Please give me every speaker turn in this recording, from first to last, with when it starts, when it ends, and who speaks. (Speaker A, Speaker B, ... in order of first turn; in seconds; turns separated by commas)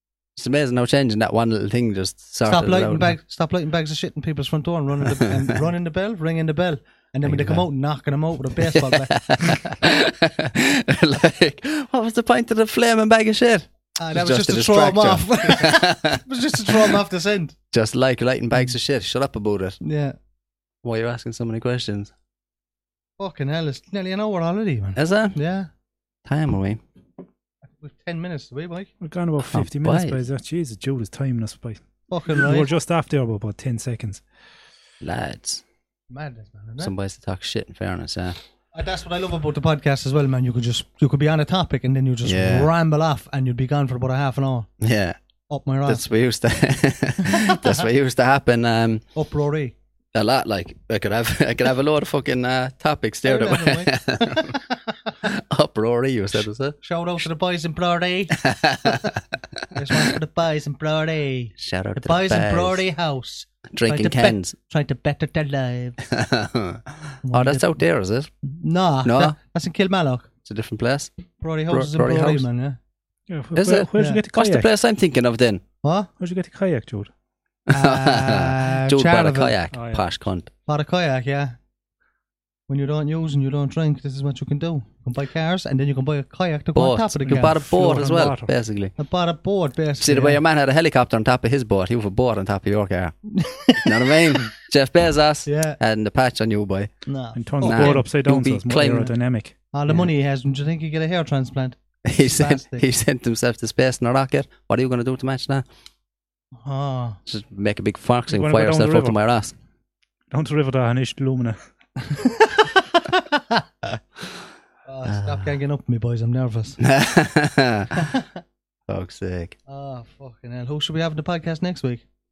Speaker A: 0.4-3.1, Speaker B: 2.5-9.7, Speaker A: 5.1-5.5, Speaker A: 7.3-7.6, Speaker A: 8.6-17.0, Speaker B: 14.0-17.6, Speaker A: 17.7-19.8, Speaker B: 19.8-20.2, Speaker A: 20.8-22.1, Speaker B: 23.2-25.7, Speaker A: 25.0-25.4, Speaker A: 26.3-26.8, Speaker B: 27.7-28.9, Speaker C: 29.0-34.2, Speaker A: 29.4-30.2, Speaker B: 32.1-32.7, Speaker A: 35.0-35.6, Speaker B: 36.1-36.9, Speaker A: 36.8-38.4, Speaker B: 38.7-44.7, Speaker A: 42.2-42.7, Speaker A: 44.8-45.2, Speaker B: 45.5-46.0, Speaker A: 45.9-49.0, Speaker B: 47.3-47.8, Speaker B: 49.1-49.7, Speaker A: 50.1-54.6, Speaker B: 53.2-55.1, Speaker A: 55.2-56.8, Speaker B: 56.8-59.1, Speaker A: 58.3-59.2, Speaker B: 59.7-66.0, Speaker A: 59.8-60.1, Speaker A: 61.6-62.8, Speaker A: 63.7-64.5, Speaker A: 66.1-68.3, Speaker B: 67.2-67.8, Speaker B: 68.5-70.3, Speaker A: 69.0-69.3, Speaker A: 70.5-71.1, Speaker B: 71.4-72.8, Speaker A: 71.7-72.5, Speaker C: 73.3-74.7, Speaker A: 73.5-75.6, Speaker B: 75.8-76.1, Speaker C: 76.2-77.1, Speaker A: 77.7-80.5, Speaker B: 77.7-79.5, Speaker C: 79.7-80.1, Speaker B: 80.7-81.6, Speaker B: 82.7-87.8, Speaker A: 86.8-88.9, Speaker C: 87.3-88.5, Speaker B: 89.0-90.4, Speaker A: 90.0-93.2, Speaker B: 93.3-94.3, Speaker A: 93.7-96.9, Speaker B: 95.5-95.8, Speaker B: 97.1-98.1, Speaker C: 97.4-99.5, Speaker A: 97.6-99.1, Speaker B: 98.8-99.1, Speaker B: 99.7-102.9, Speaker A: 102.0-105.7, Speaker B: 106.5-107.2, Speaker A: 107.3-109.5, Speaker C: 108.3-109.2, Speaker C: 110.3-111.6, Speaker B: 113.1-113.6, Speaker B: 114.9-116.8, Speaker A: 115.1-115.5, Speaker A: 116.8-117.9, Speaker B: 118.0-118.3, Speaker A: 118.9-119.6, Speaker B: 119.7-122.0